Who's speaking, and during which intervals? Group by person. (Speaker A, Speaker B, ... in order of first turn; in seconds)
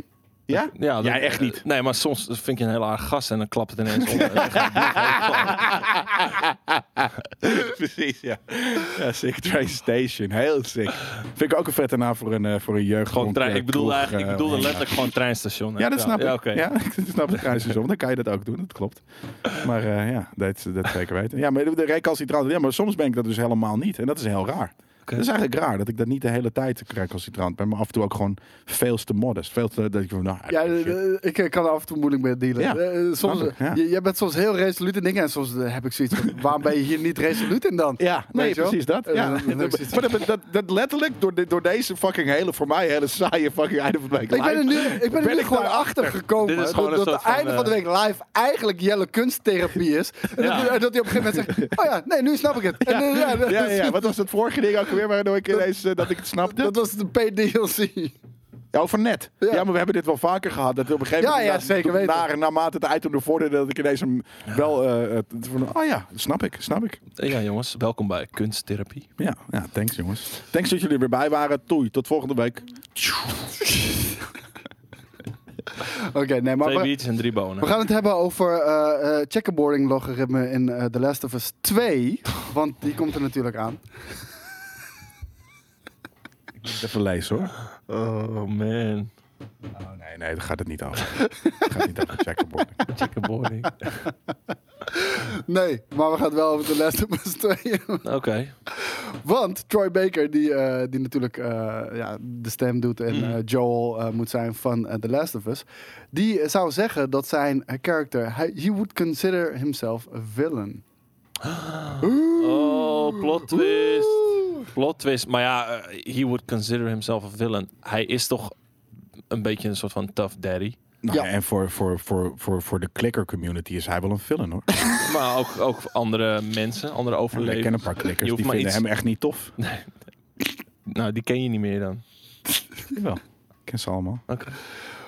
Speaker A: 0.5-1.6, 4.0-15.1, 15.8-31.0, 32.6-33.8, 38.0-46.2, 51.4-51.7, 52.8-56.7, 58.7-67.0, 69.2-73.5, 86.6-87.5, 89.8-92.8, 121.0-125.0, 127.3-129.5, 132.9-134.2
Speaker B: 0.8-5.8, 13.1-16.7, 46.4-47.8, 50.4-50.8, 67.2-69.1, 76.6-77.8, 87.9-89.1, 92.9-94.1, 98.0-98.5, 103.1-103.4, 111.4-118.5, 119.3-120.8, 125.0-128.8, 129.6-129.9, 130.8-132.0, 134.3-134.6
Speaker C: 30.5-40.1, 44.3-54.1, 56.4-58.1, 61.2-62.3, 73.7-74.1, 75.8-76.9, 77.6-83.8, 91.3-91.7, 94.9-98.0, 98.7-110.8, 112.0-114.5